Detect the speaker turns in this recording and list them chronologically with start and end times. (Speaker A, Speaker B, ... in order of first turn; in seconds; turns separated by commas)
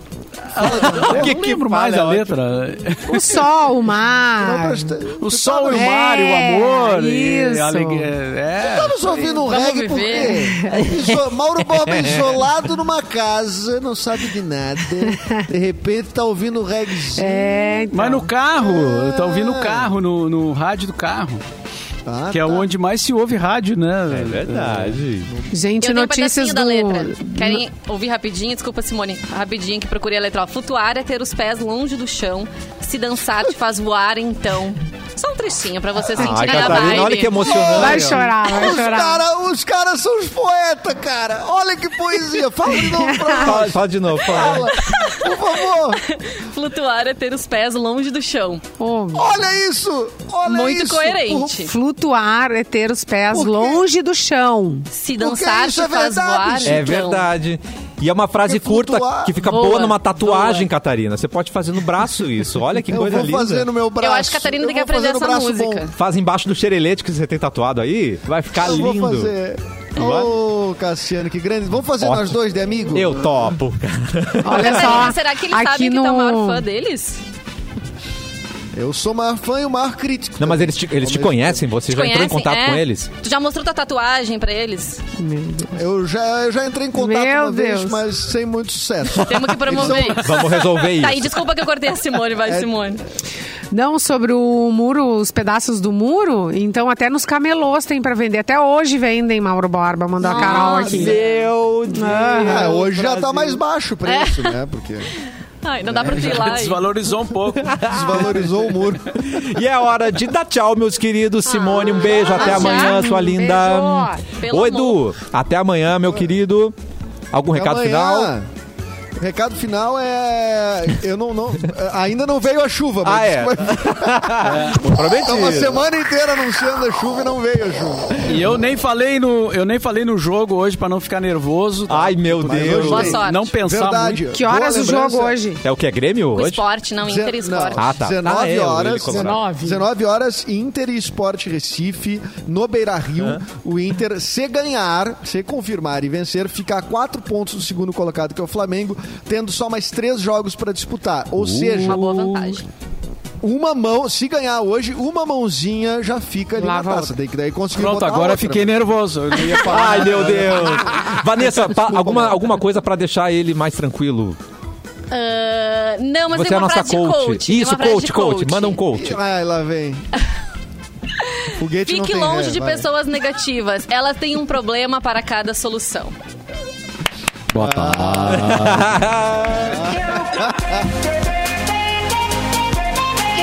Speaker A: 0.5-3.5, Speaker B: 0.6-1.4, Speaker C: 0.6-2.4, Speaker D: 3.1-5.0, Speaker B: 4.4-6.0, Speaker A: 5.2-9.1, Speaker D: 5.7-8.1, Speaker B: 8.6-17.9, Speaker E: 9.3-10.5, Speaker D: 10.5-10.9, Speaker C: 11.9-12.3, Speaker D: 17.1-18.3, Speaker A: 17.9-21.4, Speaker B: 18.6-19.9, Speaker B: 22.0-22.7, Speaker A: 22.3-25.0, Speaker C: 24.1-25.3, Speaker B: 25.3-25.6, Speaker D: 25.5-27.6, Speaker E: 25.8-37.9, Speaker C: 36.1-38.3, Speaker B: 36.5-46.0, Speaker D: 37.7-39.2, Speaker D: 42.7-43.6, Speaker C: 43.4-44.7, Speaker E: 44.4-48.6, Speaker D: 48.8-49.4, Speaker B: 49.1-51.6, Speaker E: 50.4-51.7, Speaker D: 51.5-54.9, Speaker B: 53.3-53.8, Speaker E: 54.9-57.3, Speaker B: 55.2-56.9, Speaker C: 56.6-63.6, Speaker B: 58.4-59.4, Speaker E: 59.4-60.7, Speaker B: 62.9-65.8, Speaker E: 64.0-65.9, Speaker C: 65.9-69.3, Speaker B: 68.5-73.3, Speaker C: 70.0-70.3, Speaker C: 72.0-72.3, Speaker C: 72.9-75.1, Speaker D: 74.4-76.6, Speaker E: 74.5-77.2, Speaker B: 78.7-81.7, Speaker C: 80.4-83.1, Speaker E: 81.8-85.0, Speaker D: 85.2-85.8, Speaker B: 85.7-90.3, Speaker D: 86.9-88.0, Speaker E: 89.1-93.0, Speaker C: 89.7-91.3, Speaker B: 92.4-92.7, Speaker D: 93.7-101.2, Speaker E: 100.2-101.5, Speaker C: 100.5-102.8, Speaker D: 101.9-102.8, Speaker B: 102.4-105.1, Speaker A: 102.6-103.6, Speaker E: 104.0-104.5, Speaker E: 105.6-106.8, Speaker B: 105.8-106.5, Speaker A: 106.0-108.4, Speaker C: 107.6-108.4, Speaker B: 107.8-109.4, Speaker C: 109.1-116.8, Speaker E: 111.5-113.1, Speaker D: 112.2-114.2, Speaker B: 112.3-112.8, Speaker E: 114.4-115.0, Speaker C: 117.3-118.3, Speaker B: 117.5-118.5, Speaker B: 119.2-128.3, Speaker C: 123.0-125.8, Speaker A: 124.4-124.8, Speaker A: 128.2-134.2, Speaker C: 131.9-133.2, Speaker B: 132.4-135.4, Speaker E: 132.8-133.5, Speaker D: 134.3-135.6, Speaker C: 135.6-136.6, Speaker E: 136.3-137.9, Speaker B: 137.0-152.0, Speaker C: 137.8-139.4, Speaker D: 139.1-139.8, Speaker C: 151.4-152.6, Speaker E: 151.8-152.7, Speaker B: 153.4-158.8, Speaker D: 156.6-157.2, Speaker A: 157.7-160.8, Speaker B: 159.3-162.4, Speaker C: 159.6-164.4, Speaker E: 165.1-168.8, Speaker C: 166.3-169.2, Speaker B: 168.9-170.1, Speaker E: 171.4-176.1, Speaker B: 171.6-172.9, Speaker A: 177.5-178.9, Speaker B: 177.5-178.9, Speaker C: 178.3-179.9, Speaker B: 179.7-180.7